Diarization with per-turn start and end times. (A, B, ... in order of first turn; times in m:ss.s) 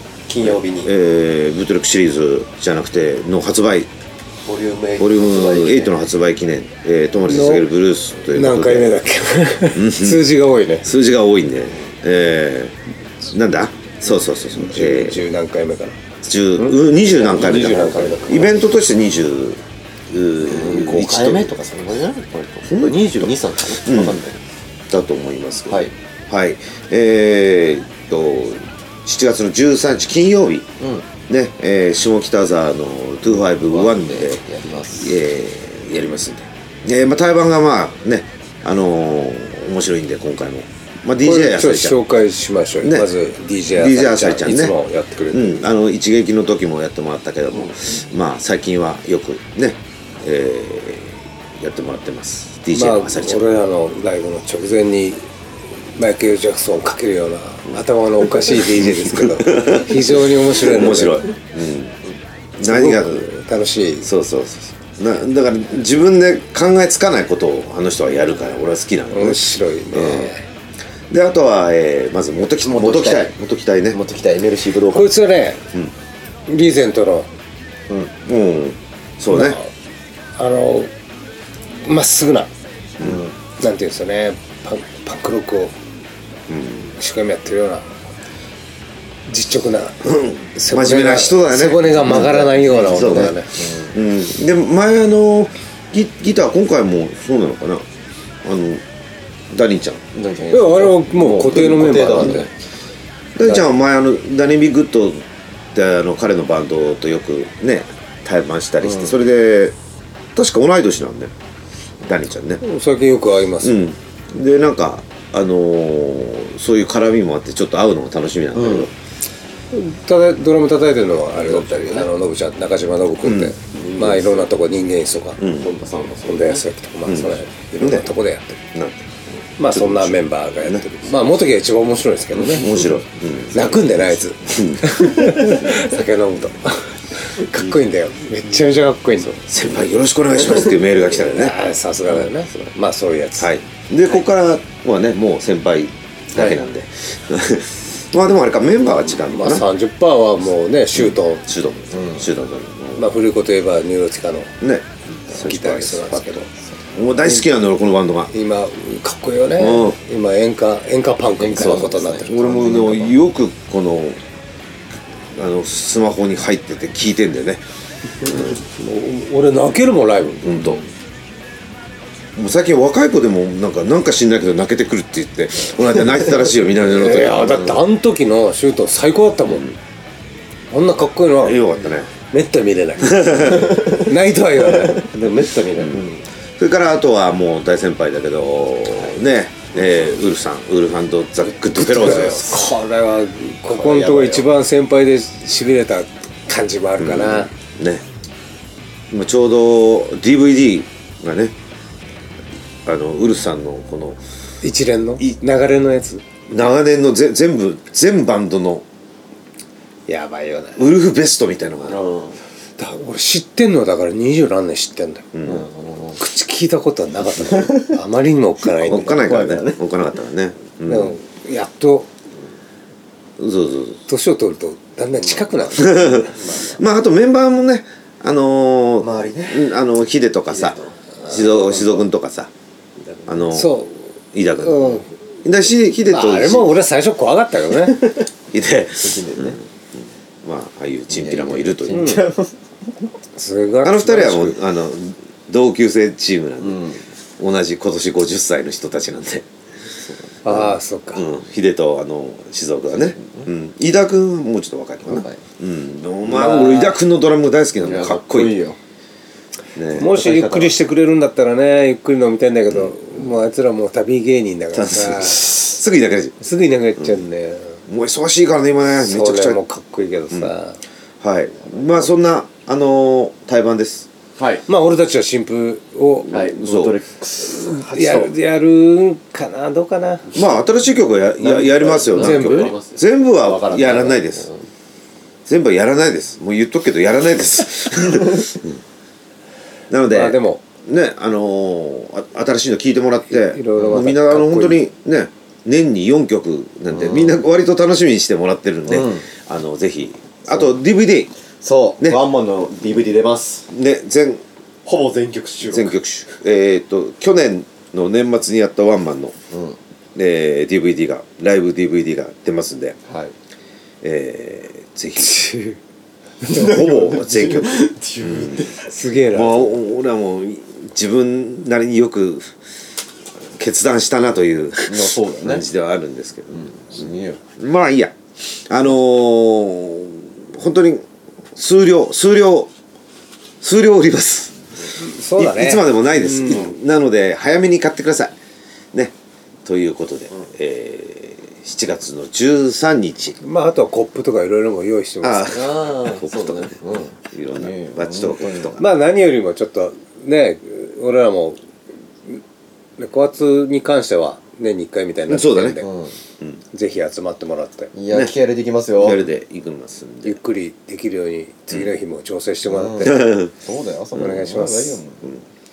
0:00.3-0:00.9 A
0:00.4-0:03.9 B
0:04.4-0:06.0 A
0:05.0-0:09.0 B
0:07.3-0:07.7 C
0:08.3-0:10.9 C
0:09.7-0:10.2 B
0:10.8-0:15.2 B
0:14.6-0:16.0 C
0:16.2-0:21.5 B
0:16.6-0:18.4 C
0:17.2-0:18.6 A
0:20.4-0:24.4 A
0:22.6-0:24.2 B
0:24.9-0:30.7 B
0:30.8-0:31.1 A
0:31.3-0:34.4 B
0:33.3-0:35.2 A
0:34.9-0:42.0 B
0:41.2-0:45.6 C
0:43.7-0:44.8 B
0:45.3-0:53.5 B
0:52.7-0:55.2 C
0:55.9-1:01.2 C
0:57.7-1:02.0 B
1:02.6-1:03.3 B
1:02.6-1:04.1 C
1:04.0-1:10.3 B
1:09.1-1:10.4 C
1:11.1-1:14.0 B
1:12.6-1:13.3 A
1:13.9-1:15.2 A
1:14.9-1:15.6 C
1:16.5-1:17.3 C
1:18.2-1:19.6 B
1:19.3-1:19.7 C
1:20.4-1:20.9 C
1:21.7-1:22.5 C
1:23.0-1:23.3 A
1:23.6-1:25.7 C
1:26.5-1:26.9 B
1:26.8-1:28.0 C
1:29.3-1:33.6 C
1:30.0-1:37.8 B
1:32.4-1:33.9 A
1:38.4-1:38.8 B
1:39.5-1:40.1 B
1:40.1-1:42.5 A
1:40.5-1:42.5 C
1:41.0-1:42.4 B
1:43.3-1:49.7 B
1:48.8-1:49.2 A
1:50.3-1:51.3 B
1:52.0-1:52.6 B
1:52.6-1:53.8 C
1:53.6-1:58.9 B
1:58.5-1:58.9 A
1:59.7-2:05.4 C
2:01.4-2:02.1 A
2:03.2-2:03.5 B
2:03.8-2:04.5 A
2:05.4-2:05.7 B
2:05.5-2:06.6 A
2:06.2-2:08.6 C
2:07.0-2:08.1 B
2:08.7-2:09.2 B
2:09.6-2:12.7 C
2:09.7-2:11.4 B
2:12.3-2:15.6 B
2:13.5-2:19.4 C
2:19.2-2:21.6 B
2:21.2-2:23.6 C
2:23.4-2:29.7 B
2:26.3-2:26.6 A
2:29.3-2:31.4 C
2:30.9-2:33.1 B
2:31.9-2:32.3 A
2:33.0-2:34.5 C
2:34.6-2:38.3 B
2:35.3-2:36.5 C
2:38.3-2:42.4 C
2:39.6-2:40.0 B
2:41.4-2:43.2 A
2:41.6-2:44.2 B
2:45.3-2:47.6 B
2:48.2-2:48.6 B
2:48.2-2:50.8 C
2:50.4-2:50.8 B
2:52.4-2:57.8 B
2:56.8-2:59.8 C
3:00.7-3:01.6 C
3:01.4-3:02.1 B
3:02.2-3:06.1 C
3:03.0-3:03.9 B
3:05.8-3:12.5 B
3:09.8-3:10.1 A
3:11.4-3:12.6 A
3:11.8-3:17.5 C
3:13.7-3:14.5 A
3:17.0-3:18.0 B
3:19.1-3:21.5 B
3:22.8-3:24.2 B
3:24.6-3:26.2 C
3:26.5-3:28.8 B
3:30.1-3:30.9 C
3:30.8-3:32.0 B
3:31.9-3:32.4 A
3:32.8-3:35.2 C
3:35.3-3:35.6 B
3:35.4-3:36.2 A
3:36.2-3:39.3 C
3:37.4-3:37.9 A
3:38.8-3:41.1 B
3:38.9-3:39.8 A
3:40.9-3:42.1 C
3:43.4-3:44.0 B
3:44.1-3:46.6 C
3:45.2-3:45.5 A
3:45.7-3:52.5 B
3:49.0-3:49.8 A
3:50.5-3:51.9 A
3:53.3-3:56.8 B
3:53.5-3:54.0 C
3:54.6-3:55.1 C
3:56.0-3:58.2 C
3:58.5-3:59.6 B
3:59.0-3:59.6 A
4:00.4-4:02.3 B
4:01.1-4:02.6 A
4:01.9-4:02.3 C
4:03.4-4:04.6 C
4:03.8-4:09.4 B
4:06.6-4:07.0 A
4:10.0-4:10.7 A
4:10.4-4:11.2 C
4:11.1-4:18.6 B
4:12.9-4:13.5 A
4:15.0-4:15.4 A
4:16.3-4:17.0 C
4:17.8-4:18.8 A
4:19.8-4:20.2 B
4:19.9-4:25.5 C
4:20.1-4:20.8 A
4:22.7-4:23.0 B
4:24.7-4:26.3 B
4:26.4-4:27.8 C
4:27.9-4:29.6 B
4:28.9-4:30.8 C
4:31.2-4:34.1 B
4:34.4-4:34.6 A
4:34.6-4:36.5 C
4:36.3-4:38.4 A
4:36.3-4:37.0 B
4:37.4-4:40.3 C
4:40.3-4:44.5 B
4:41.2-4:44.6 A
4:42.1-4:42.7 C
4:45.5-4:48.7 B
4:49.9-5:01.3 B
4:50.0-4:50.6 C
4:53.3-4:54.8 C
4:56.9-4:57.4 A
4:58.9-4:59.2 A
5:01.6-5:03.7 A
5:03.7-5:04.4 B
5:04.8-5:06.0 A
5:05.6-5:09.4 B
5:09.5-5:09.8 A
5:10.1-5:13.0 B
5:13.1-5:13.3 A
5:14.0-5:15.4 B
5:15.2-5:15.8 C
5:16.4-5:18.7 B
5:16.4-5:18.8 A
5:18.7-5:19.8 C
5:19.3-5:22.6 B
5:23.6-5:27.0 B
5:24.8-5:25.6 A
5:26.6-5:27.4 A
5:27.6-5:32.7 B
5:33.6-5:34.6 B
5:34.9-5:36.7 C
5:35.3-5:38.3 B
5:39.6-5:43.4 B
5:43.4-5:45.8 C
5:45.2-5:48.8 B
5:45.5-5:48.8 A
5:48.8-5:51.6 C
5:53.0-5:55.9 C
5:55.3-5:55.8 B
5:55.8-5:56.1 A
5:56.7-5:57.9 C
5:57.9-5:59.2 A
5:59.0-6:00.4 B
6:00.2-6:03.4 C
6:02.6-6:05.3 A
6:03.0-6:03.5 B
6:04.1-6:05.0 C